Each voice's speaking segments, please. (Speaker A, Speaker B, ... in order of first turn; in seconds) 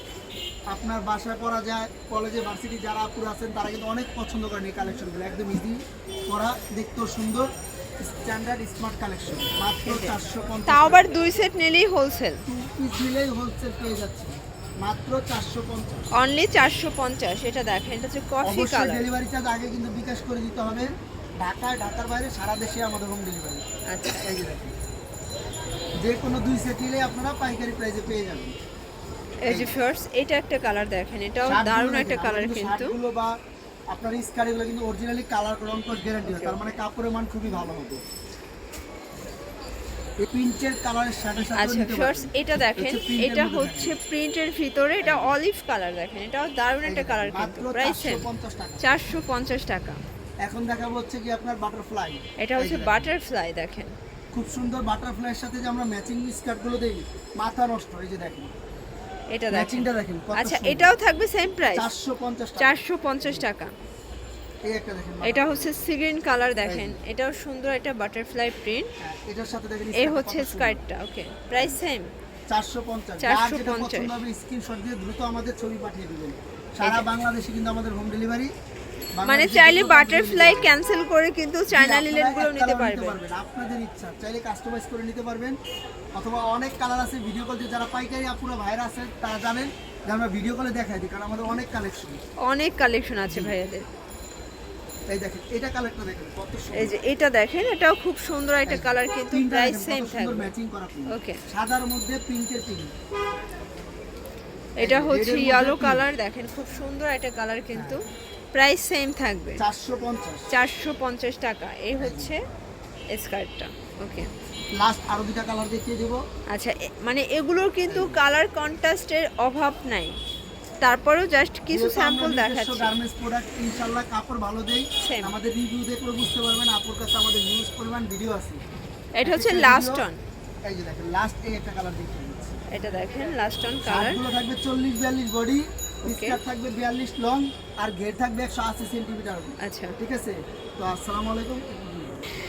Speaker A: 0.7-7.5, 8.0-11.0, 12.5-16.1, 18.4-23.6, 24.2-24.7, 26.0-28.6, 29.5-29.7, 31.4-33.3, 33.9-38.0, 40.2-44.0, 45.0-45.4, 46.9-48.9, 50.4-53.1, 54.3-58.5, 59.5-60.9, 61.8-63.4, 64.7-65.9, 66.7-67.0, 69.0-70.8, 72.5-78.5, 79.2-80.8, 81.7-85.6, 86.2-92.2, 93.3-93.6, 95.1-97.0, 98.7-102.9, 104.8-106.1, 107.7-108.0, 109.6-110.5, 112.0-112.3, 114.8-116.2, 117.9-118.2, 121.7-128.6, 129.2-130.1, 130.7-132.6, 133.8-142.2
Speaker B: 9.8-10.2, 10.7-12.4, 16.2-19.1, 23.9-24.3, 29.4-33.0, 36.1-36.8, 41.5-48.2, 48.8-50.0, 52.4-54.0, 59.3-61.9, 62.6-63.7, 65.2-68.9, 70.0-72.1, 73.2-74.2, 79.3-83.2, 92.5-93.9, 96.8-100.5, 101.1-101.4, 104.8-108.0, 108.5-109.6, 110.5-112.4, 113.1-114.3, 116.5-120.2, 120.8-122.9, 125.0-125.3, 129.2-130.2, 132.7-134.2, 136.1-136.4, 139.6-140.0